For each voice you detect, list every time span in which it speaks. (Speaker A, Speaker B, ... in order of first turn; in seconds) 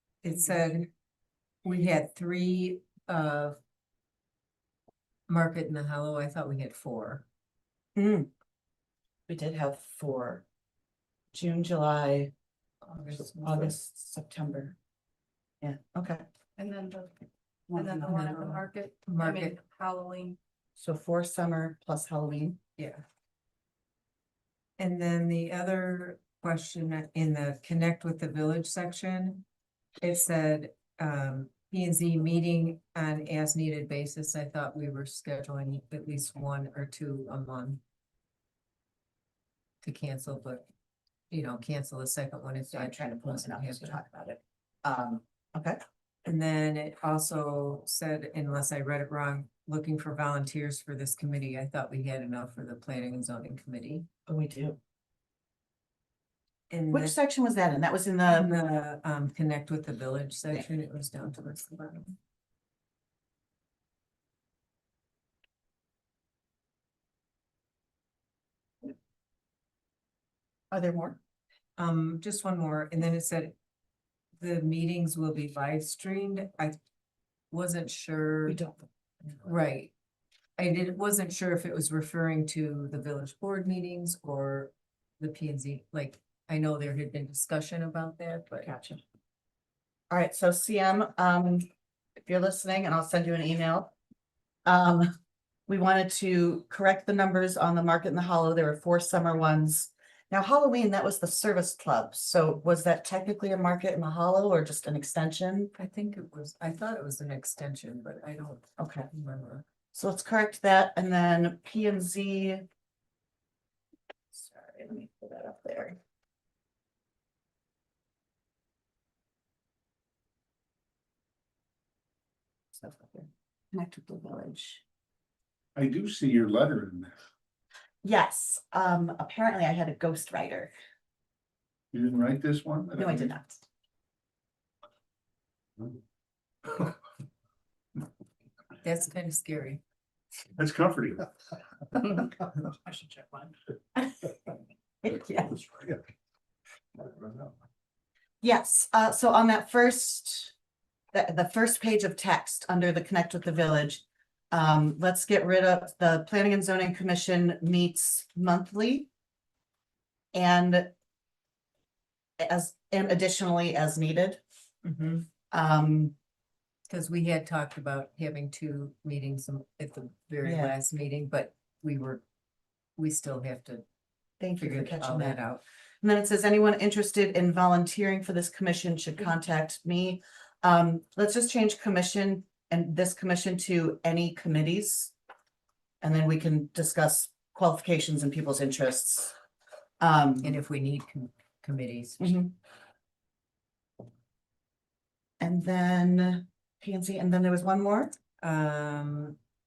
Speaker A: 0.2-0.9, 1.6-3.6, 5.3-7.2, 12.8-13.7, 18.0-19.6, 22.8-23.0, 24.8-29.4, 30.0-37.8, 39.8-40.7, 41.3-44.0, 46.2-54.1, 56.7-57.2, 58.3-62.1, 71.8-73.5, 74.4-76.8, 77.5-78.6, 79.4-79.9, 80.6-88.7, 105.8-109.7, 138.8-139.8, 166.9-172.2, 173.0-173.8, 174.6-175.6, 190.4-192.3, 198.4-199.4
Speaker B: 8.0-8.3, 9.3-10.4, 11.3-12.3, 13.4-14.8, 15.6-16.2, 17.7-18.0, 20.8-22.6, 42.7-45.8, 54.3-54.8, 56.9-58.5, 70.7-71.2, 78.5-78.8, 88.6-89.0, 90.1-91.7, 92.2-93.9, 94.7-95.1, 95.7-105.7, 108.8-109.1, 109.9-112.6, 114.3-116.0, 122.7-124.8, 128.0-130.7, 133.0-133.6, 145.0-145.7, 148.4-150.5, 151.1-159.1, 160.3-160.9, 162.4-166.1, 170.4-170.8, 174.4-175.4, 176.0-185.1, 186.0-189.3, 190.0-190.6, 192.2-192.5, 195.4-198.1
Speaker C: 16.6-17.1, 17.7-20.4
Speaker D: 125.8-127.1, 131.9-133.3, 140.6-141.3